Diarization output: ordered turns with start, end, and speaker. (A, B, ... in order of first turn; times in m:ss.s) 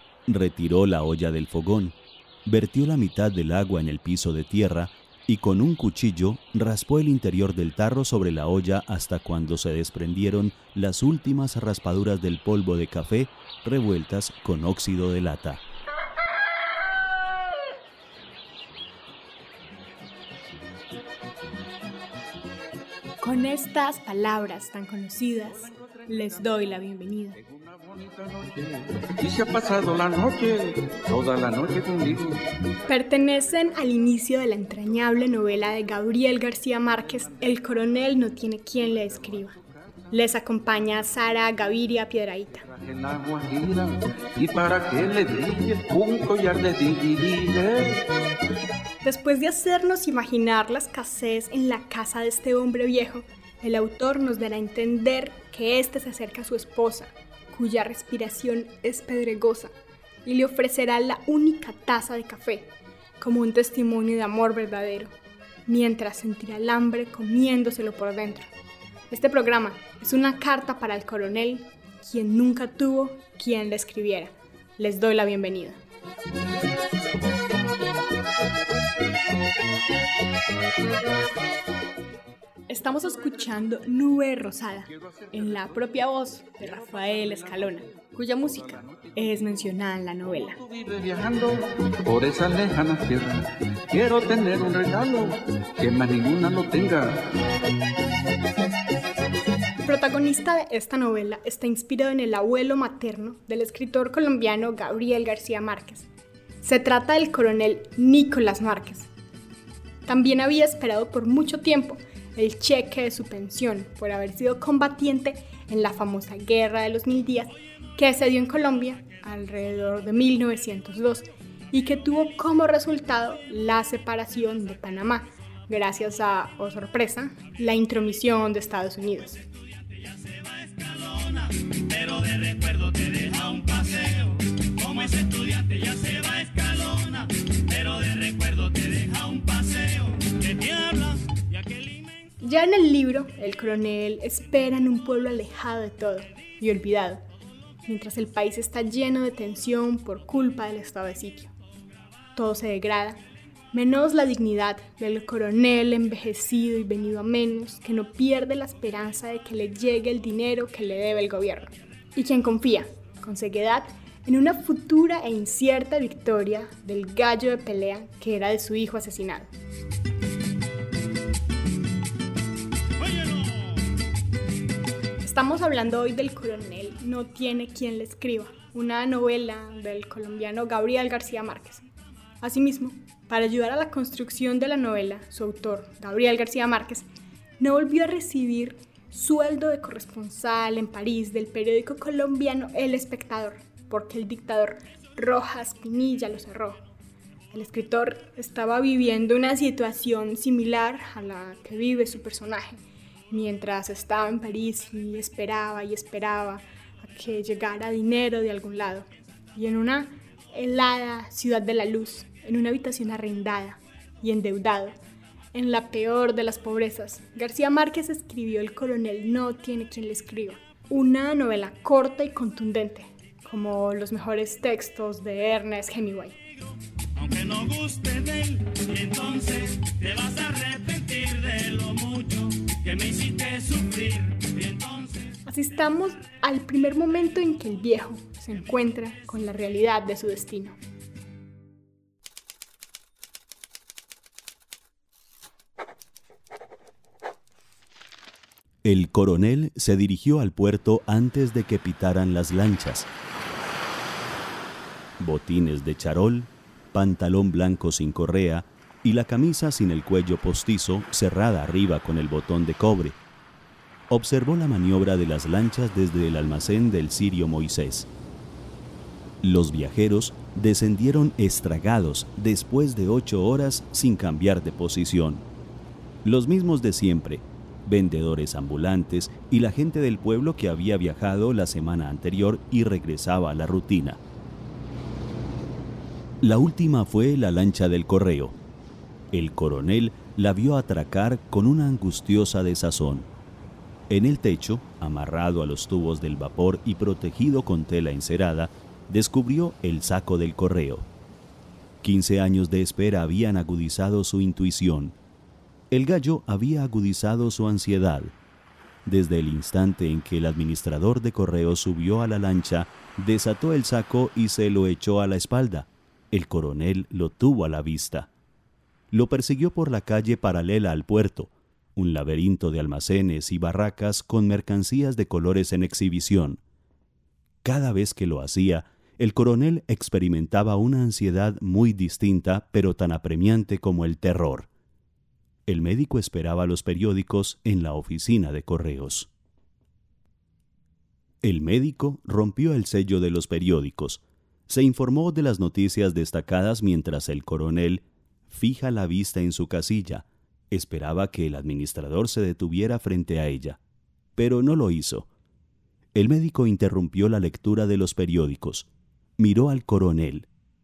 0:00.3-0:15.6 A
0:23.2-0:27.4 B
0:25.4-0:32.5 C
0:32.9-0:39.5 B
0:38.9-0:40.1 C
0:40.1-0:42.6 B
0:42.6-0:48.0 C
0:49.0-0:59.7 B
1:00.2-1:05.1 B
1:05.7-1:08.5 B
1:09.1-1:15.8 B
1:22.7-1:30.6 B
1:24.8-1:37.3 C
1:39.8-1:46.1 B
1:46.6-1:49.1 B
1:50.1-2:09.4 B
2:09.8-2:22.2 D
2:22.4-2:27.2 B
2:27.9-2:31.5 B
2:32.4-2:33.2 B
2:33.7-2:49.5 B
2:53.0-2:53.8 D
2:55.2-3:01.8 B
3:02.4-3:07.0 B
3:07.6-3:16.9 B
3:17.5-3:35.0 B
3:35.5-3:46.4 B
3:47.2-3:55.4 D
3:55.4-4:00.8 B
4:08.8-4:13.1 A
4:15.2-4:23.2 A
4:24.1-4:28.1 A
4:29.4-4:35.4 A
4:36.2-4:44.2 A
4:46.4-4:48.6 A
4:49.3-4:53.3 A
4:54.1-5:01.1 A
5:02.0-5:05.2 A
5:05.9-5:08.3 A
5:09.1-5:18.3 A
5:19.1-5:26.6 A
5:27.6-5:34.7 A
5:35.7-5:39.3 A
5:41.4-5:53.8 A
5:54.4-5:55.3 A
5:56.2-6:00.5 A